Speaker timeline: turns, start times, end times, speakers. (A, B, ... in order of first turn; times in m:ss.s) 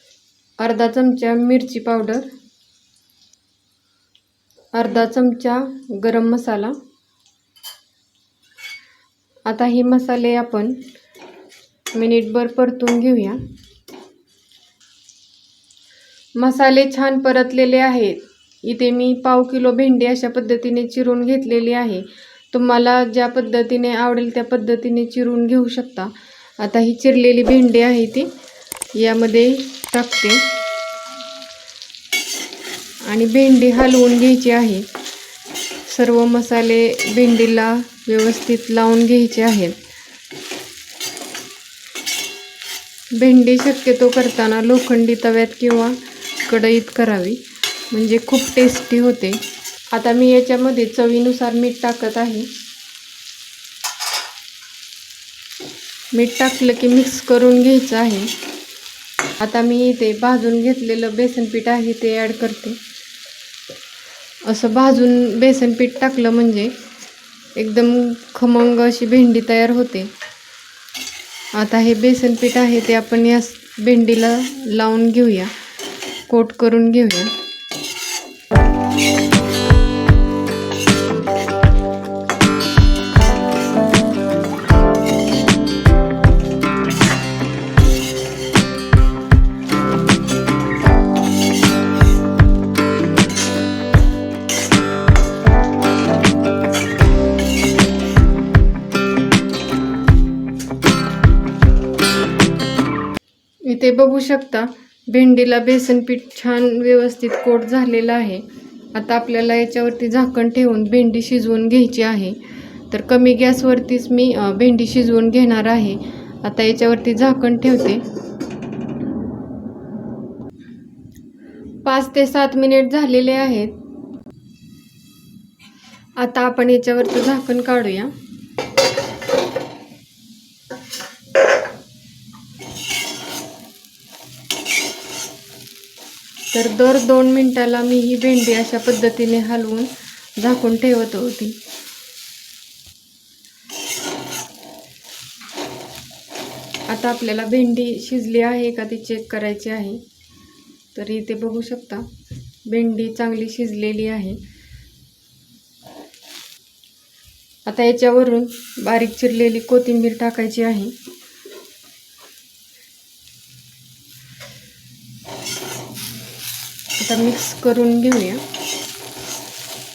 0:00.6-0:02.3 A
0:04.7-0:06.8 A
0:09.5-0:10.8 A
0:11.9-0:13.4 A
0:16.4-0:28.3 A
0:28.9-0:30.5 A
0:33.1-0:34.9 A
0:35.9-0:39.8 A
0:43.1-0:49.4 A
0:49.9-0:52.5 A
0:56.1-0:58.3 A
0:59.4-1:02.8 A
1:04.4-1:06.7 A
1:07.6-1:10.1 A
1:11.5-1:15.5 A
1:16.3-1:17.3 A
1:43.7-1:58.0 A
2:01.8-2:03.8 A
2:06.2-2:08.1 A
2:16.5-2:21.6 A
2:26.9-2:30.0 A
2:31.0-2:32.1 A
2:32.7-2:34.4 A
2:37.7-2:41.0 A
2:47.0-2:48.4 A